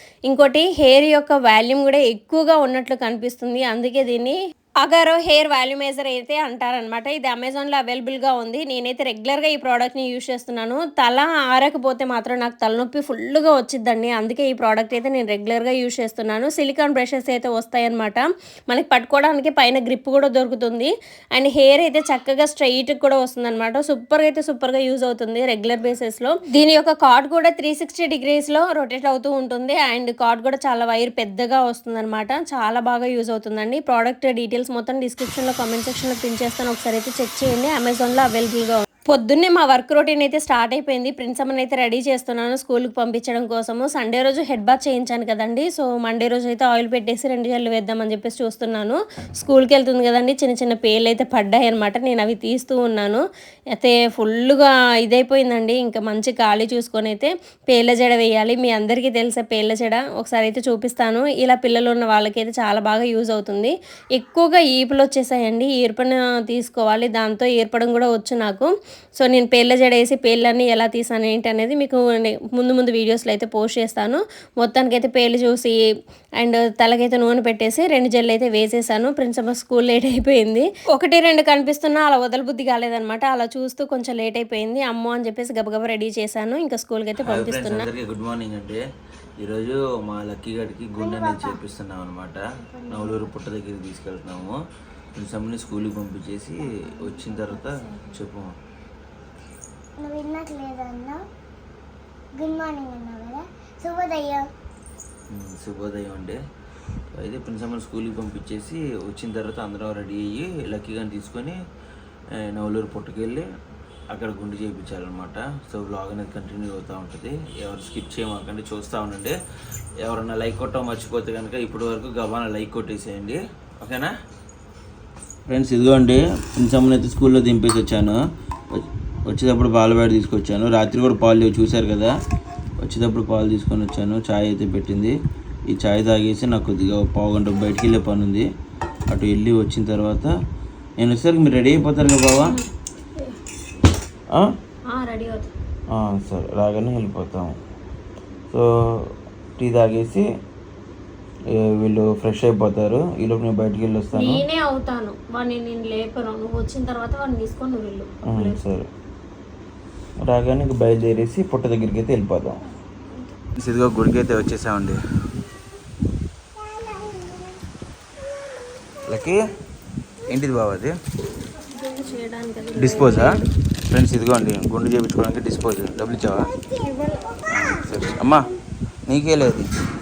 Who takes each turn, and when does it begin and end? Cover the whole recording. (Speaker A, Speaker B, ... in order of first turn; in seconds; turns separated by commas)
Speaker A: 0.3-53.2, Speaker A: 53.8-75.7, Speaker A: 76.4-87.9, Speaker B: 87.2-88.8, Speaker B: 89.4-94.6, Speaker C: 91.0-91.6, Speaker C: 92.6-93.3, Speaker B: 95.1-98.5, Speaker C: 97.3-98.0, Speaker C: 100.0-101.2, Speaker C: 102.3-104.5, Speaker B: 105.3-106.4, Speaker B: 107.2-111.6, Speaker B: 112.4-113.5, Speaker B: 114.1-119.4, Speaker B: 120.0-124.1, Speaker B: 125.5-128.2, Speaker B: 128.7-132.1, Speaker B: 132.8-135.2, Speaker B: 135.7-138.5, Speaker B: 139.1-140.3, Speaker B: 141.0-142.6, Speaker A: 144.9-145.5, Speaker B: 145.9-147.5, Speaker B: 148.5-150.2, Speaker B: 151.5-154.4, Speaker A: 154.1-158.6, Speaker B: 158.3-158.9, Speaker B: 160.2-162.6, Speaker B: 163.6-165.0, Speaker B: 169.1-169.4, Speaker B: 170.3-170.9, Speaker A: 171.7-173.5, Speaker B: 172.8-173.3, Speaker B: 173.9-176.4, Speaker A: 176.8-177.2, Speaker B: 177.5-178.4, Speaker B: 179.1-179.7